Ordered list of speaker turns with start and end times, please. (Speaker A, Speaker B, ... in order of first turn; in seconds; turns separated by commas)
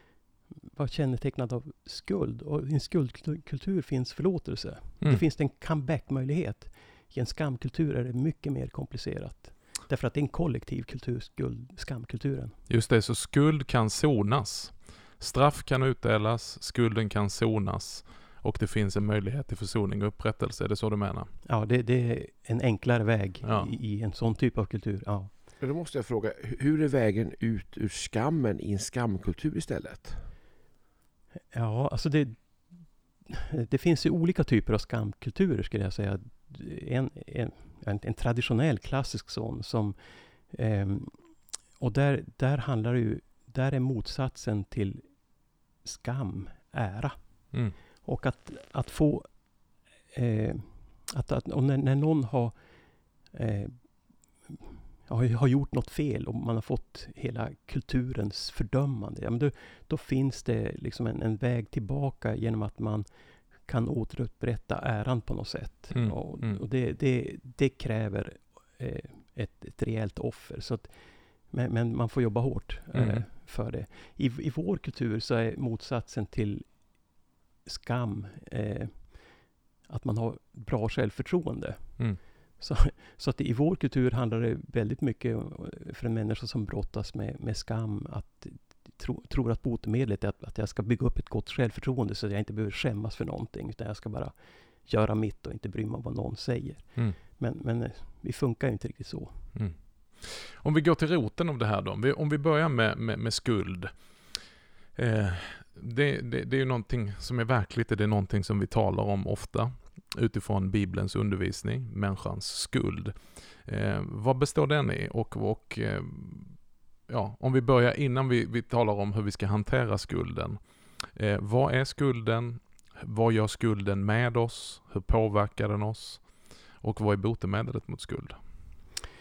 Speaker A: 0.7-12.6, Speaker B: 12.7-21.3, Speaker A: 21.5-25.3, Speaker B: 23.4-23.7, Speaker C: 25.6-30.2, Speaker A: 31.5-32.4, Speaker A: 33.3-40.0, Speaker A: 40.5-41.2, Speaker A: 41.8-45.0, Speaker A: 45.8-47.2, Speaker A: 48.0-49.3, Speaker A: 50.1-52.5, Speaker A: 53.3-53.8, Speaker A: 54.5-63.1, Speaker A: 63.7-70.9, Speaker B: 65.9-66.6, Speaker A: 71.5-76.7, Speaker B: 72.9-73.2, Speaker A: 77.7-79.1, Speaker A: 79.9-82.0, Speaker A: 82.6-94.3, Speaker A: 94.9-99.4, Speaker B: 99.5-103.9, Speaker B: 105.0-116.6, Speaker B: 117.1-120.6, Speaker B: 121.2-126.3, Speaker B: 126.8-128.4